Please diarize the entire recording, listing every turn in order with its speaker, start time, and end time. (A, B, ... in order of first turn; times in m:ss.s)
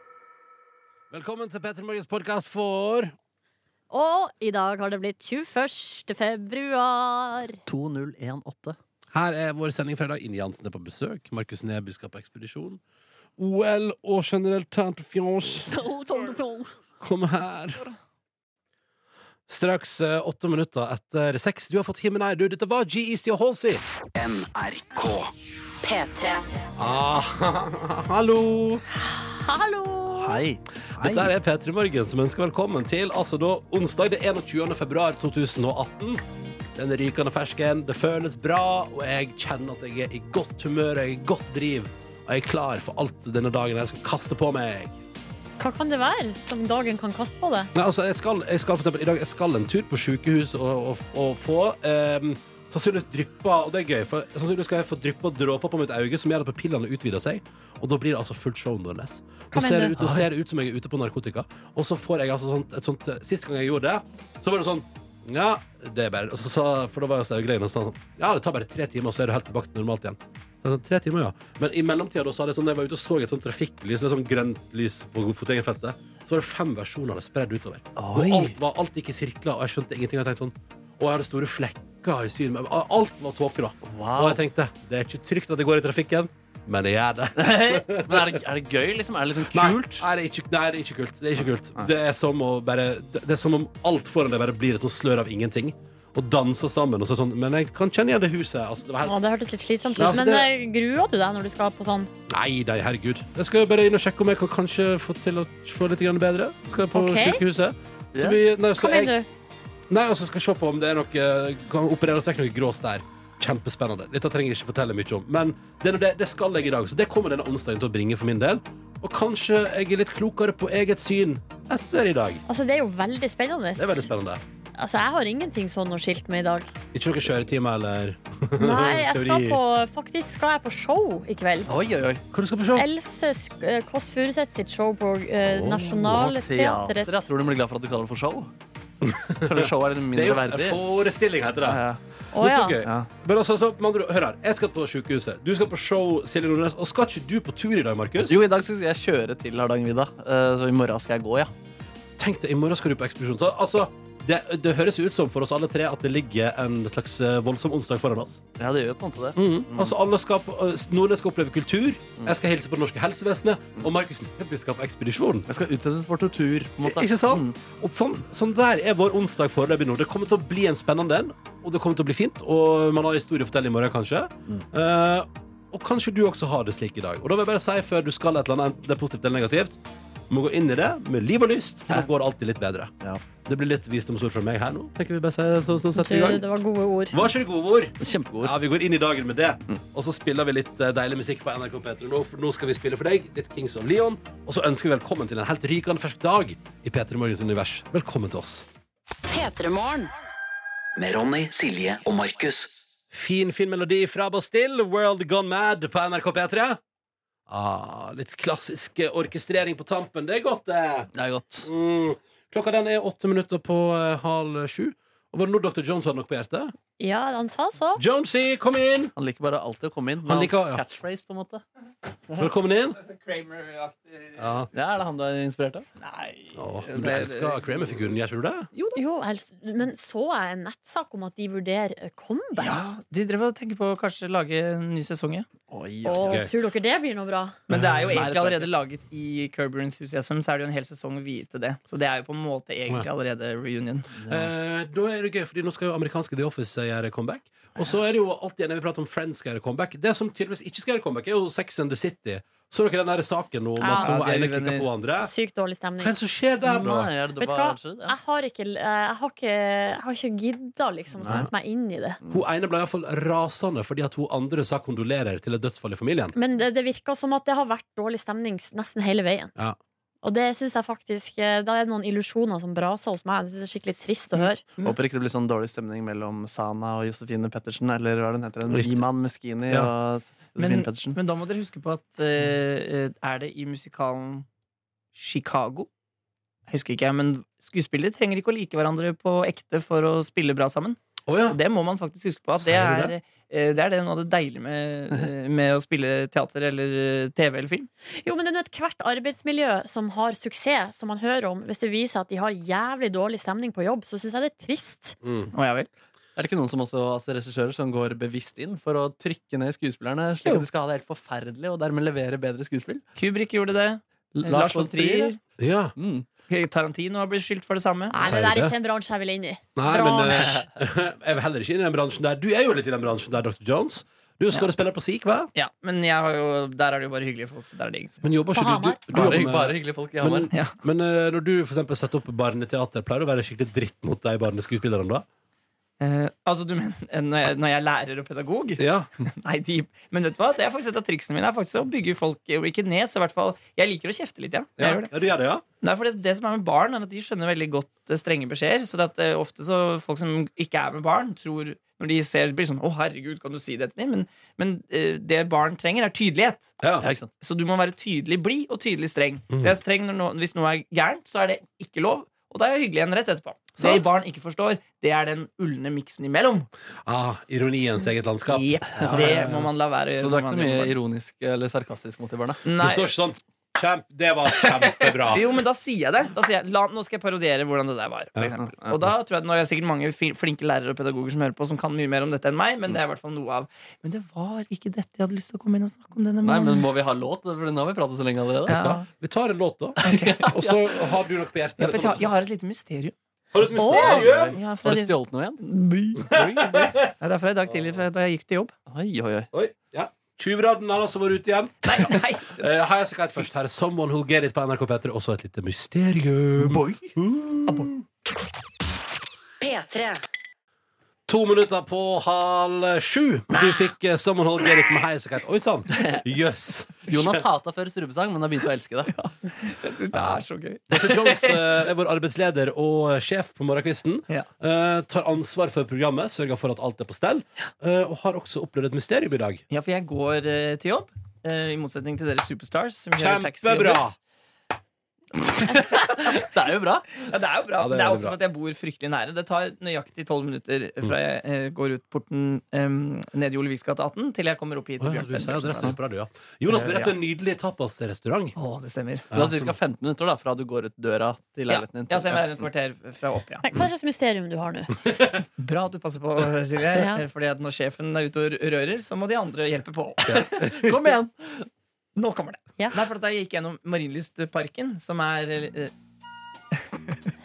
0:01.1-0:03.1 A
0:03.9-0:07.6 B
0:07.6-0:08.8 C
0:09.1-0:12.8 A
0:13.4-0:15.7 A
0:15.6-0:16.6 C
0:17.0-0:17.8 A
0:19.5-0:23.8 A
0:24.2-0:25.3 D
0:25.8-0:26.7 E
0:26.8-0:28.8 A
0:28.9-0:30.4 B
0:30.1-0:31.3 C
0:31.0-0:36.2 A
0:36.7-0:45.0 A
0:45.6-0:47.7 B
0:47.7-1:28.4 A
0:59.5-0:59.9 B
1:00.0-1:00.3 C
1:18.0-1:18.6 C
1:23.8-1:24.4 C
1:27.4-1:30.0 C
1:29.4-1:39.2 A
1:39.0-1:42.1 B
1:39.9-1:40.5 A
1:42.3-1:49.1 A
1:46.9-1:47.4 B
1:48.2-1:48.4 C
1:48.8-1:49.3 B
1:49.9-2:02.4 A
2:02.5-2:04.1 B
2:03.8-2:04.4 A
2:04.8-2:06.7 B
2:06.9-2:09.6 A
2:08.6-2:11.7 B
2:11.7-2:12.2 C
2:12.3-2:12.9 A
2:12.8-2:17.2 B
2:15.4-2:18.5 C
2:19.0-2:21.8 A
2:19.4-2:20.8 C
2:21.6-2:22.0 C
2:22.3-2:22.8 B
2:22.4-2:28.4 A
2:22.8-2:23.1 C
2:28.2-2:31.5 C
2:32.2-2:38.4 A
2:38.6-2:39.9 C
2:39.4-2:45.5 A
2:45.5-2:47.6 C
2:46.8-2:59.8 A
3:00.3-3:02.9 A
3:03.4-3:06.4 A
3:06.0-3:07.2 B
3:07.1-3:18.6 A
3:08.0-3:08.5 C
3:19.3-3:20.1 E
3:20.9-3:22.8 D
3:23.1-3:26.8 A
3:27.5-3:31.1 A
3:31.1-3:31.7 C
3:31.6-3:36.7 A
3:37.0-3:38.0 B
3:38.0-3:39.1 A
3:39.2-3:41.6 C
3:40.2-3:40.8 A
3:42.4-3:43.0 A
3:42.9-3:44.4 F
3:44.4-3:44.7 A
3:44.7-3:45.8 C
3:46.0-3:48.1 F
3:46.5-3:48.7 A
3:48.7-3:49.0 F
3:48.9-3:52.8 B
3:52.6-3:55.5 F
3:55.7-3:56.4 C
3:56.0-3:57.6 B
3:57.7-3:58.3 A
3:57.7-4:04.1 F
3:58.1-3:58.7 C
4:04.1-4:04.5 C
4:04.3-4:15.3 A
4:13.8-4:14.1 B
4:13.8-4:14.9 F
4:15.2-4:16.1 B
4:16.0-4:17.1 A
4:16.6-4:18.1 C
4:17.4-4:22.2 B
4:21.2-4:21.5 C
4:22.3-4:26.3 A
4:26.3-4:29.5 B
4:30.2-4:34.6 B
4:34.8-4:41.2 C
4:38.6-4:38.9 A
4:40.6-4:44.4 F
4:45.1-4:45.9 F
4:46.7-4:57.9 F
4:51.3-4:51.6 A
4:52.6-4:53.1 A
4:58.2-5:05.1 B
5:05.2-5:05.5 A
5:05.5-5:05.9 F
5:06.4-5:13.0 C
5:13.2-5:15.4 F
5:14.4-5:15.4 C
5:15.6-5:15.9 A
5:16.0-5:16.3 C
5:16.5-5:18.1 F
5:18.1-5:20.6 B
5:18.2-5:18.8 A
5:19.8-5:25.5 A
5:20.3-5:20.6 C
5:25.6-5:28.2 F
5:28.2-5:35.2 A
5:28.6-5:29.0 B
5:29.1-5:30.5 C
5:36.0-5:45.1 F
5:38.8-5:39.1 A
5:44.8-5:45.6 A
5:45.8-5:56.7 F
5:56.8-5:57.1 A
5:57.0-5:57.3 C
5:57.4-6:06.7 F
5:59.5-5:59.8 A
6:03.8-6:04.1 A
6:07.1-6:09.6 A
6:08.5-6:11.0 F
6:08.9-6:12.6 C
6:12.6-6:13.1 F
6:12.8-6:15.4 A
6:15.3-6:26.9 F
6:26.4-6:28.9 C
6:28.7-6:29.1 F
6:28.7-6:32.3 A
6:30.0-6:30.8 C
6:30.0-6:30.6 F
6:31.8-6:33.1 F
6:33.5-6:34.6 A
6:33.8-6:34.2 B
6:33.9-6:35.6 C
6:34.6-6:36.4 F
6:36.3-6:37.1 A
6:36.3-6:36.9 C
6:37.2-6:38.7 F
6:38.9-6:39.5 C
6:39.5-6:47.9 A
6:41.8-6:42.7 F
6:49.6-6:50.2 E
6:51.3-6:57.4 A
6:55.9-6:56.2 C
6:57.1-6:59.1 C
6:59.1-7:01.1 F
7:00.1-7:09.6 A
7:09.7-7:14.1 F
7:13.2-7:14.2 A
7:15.4-7:16.5 F
7:16.2-7:17.1 C
7:17.2-7:26.0 F
7:17.8-7:18.4 A
7:25.0-7:28.6 A
7:26.7-7:27.1 F
7:28.6-7:29.3 F
7:29.3-7:29.8 A
7:29.3-7:32.6 C
7:31.7-7:33.6 F
7:33.6-7:35.0 B
7:35.6-7:40.4 F
7:36.9-7:37.2 B
7:40.2-7:41.6 C
7:40.6-7:41.1 A
7:42.2-7:45.9 F
7:46.7-7:47.2 F